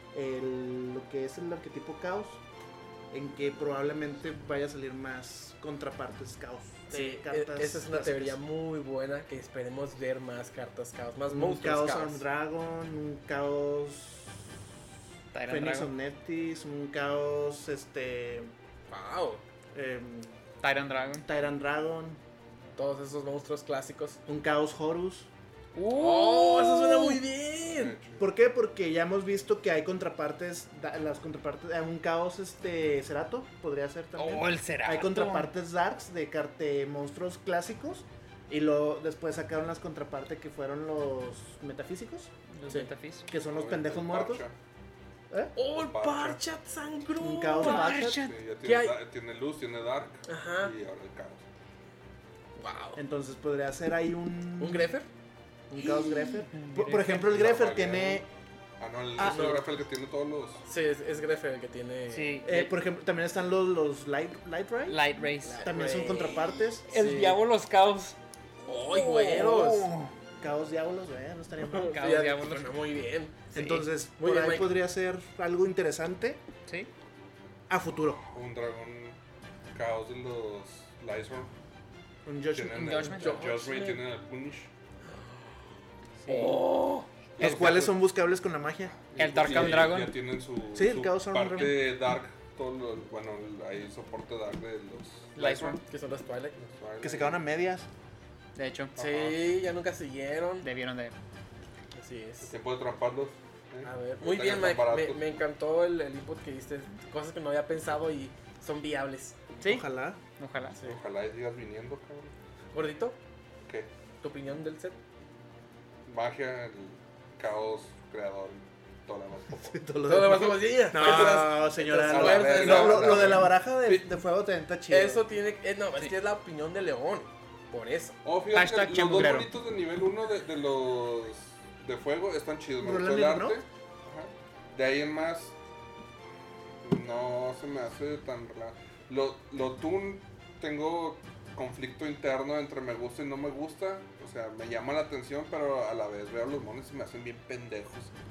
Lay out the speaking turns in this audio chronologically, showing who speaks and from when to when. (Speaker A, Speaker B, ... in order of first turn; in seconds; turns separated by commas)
Speaker A: 0.1-2.4, Speaker A: 3.1-8.4, Speaker B: 6.9-12.2, Speaker A: 11.3-14.4, Speaker C: 15.3-15.9, Speaker A: 15.5-18.5, Speaker B: 18.9-19.4, Speaker A: 19.7-20.4, Speaker C: 20.6-21.3, Speaker A: 21.2-22.2, Speaker B: 22.8-24.2, Speaker A: 24.3-25.3, Speaker C: 25.8-27.2, Speaker B: 25.9-28.0, Speaker D: 27.7-28.3, Speaker A: 28.2-42.3, Speaker C: 34.2-35.5, Speaker C: 42.5-43.3, Speaker A: 43.3-44.4, Speaker D: 43.3-44.5, Speaker B: 45.6-47.9, Speaker D: 45.7-46.4, Speaker A: 47.2-48.2, Speaker C: 47.6-48.4, Speaker D: 48.0-51.4, Speaker B: 48.6-49.0, Speaker B: 50.3-50.7, Speaker B: 52.6-53.0, Speaker A: 53.0-55.0, Speaker B: 54.6-55.1, Speaker A: 55.7-58.3, Speaker B: 55.8-56.4, Speaker C: 56.5-57.2, Speaker D: 57.1-58.3, Speaker D: 58.8-60.6, Speaker A: 59.2-59.5, Speaker B: 59.2-59.7, Speaker B: 60.7-62.4, Speaker C: 62.1-62.7, Speaker A: 62.5-65.0, Speaker C: 64.9-65.8, Speaker B: 65.4-67.4, Speaker A: 65.6-66.8, Speaker C: 66.9-68.2, Speaker B: 68.6-69.9, Speaker A: 69.2-72.0, Speaker B: 71.6-73.5, Speaker C: 71.9-72.7, Speaker A: 73.5-76.4, Speaker C: 73.5-73.9, Speaker B: 74.2-74.8, Speaker A: 77.7-78.2, Speaker D: 78.2-79.2, Speaker D: 79.7-81.5, Speaker A: 82.3-83.2, Speaker D: 82.5-84.7, Speaker C: 82.7-83.4, Speaker B: 83.2-84.0, Speaker B: 85.1-85.4, Speaker C: 86.2-86.6, Speaker B: 86.3-87.1, Speaker D: 87.4-88.0, Speaker A: 87.4-89.0, Speaker D: 89.0-95.8, Speaker C: 89.2-90.2, Speaker A: 90.7-91.9, Speaker C: 95.4-95.8, Speaker B: 95.8-96.6, Speaker D: 96.6-97.4, Speaker A: 97.0-97.9, Speaker C: 98.6-99.0, Speaker D: 99.0-99.4, Speaker B: 99.0-100.7, Speaker C: 100.6-101.1, Speaker B: 102.0-102.5, Speaker D: 102.4-105.3, Speaker B: 103.8-109.4, Speaker C: 109.6-109.9, Speaker A: 109.6-110.2, Speaker C: 110.4-110.8, Speaker D: 110.8-112.3, Speaker B: 112.7-113.2, Speaker B: 114.2-115.0, Speaker D: 116.1-119.8, Speaker A: 119.6-125.2, Speaker B: 120.1-123.5, Speaker D: 121.0-121.4, Speaker D: 122.1-124.1, Speaker B: 124.9-128.2, Speaker D: 128.2-135.6, Speaker C: 128.5-129.5, Speaker A: 132.8-133.6, Speaker D: 136.8-148.1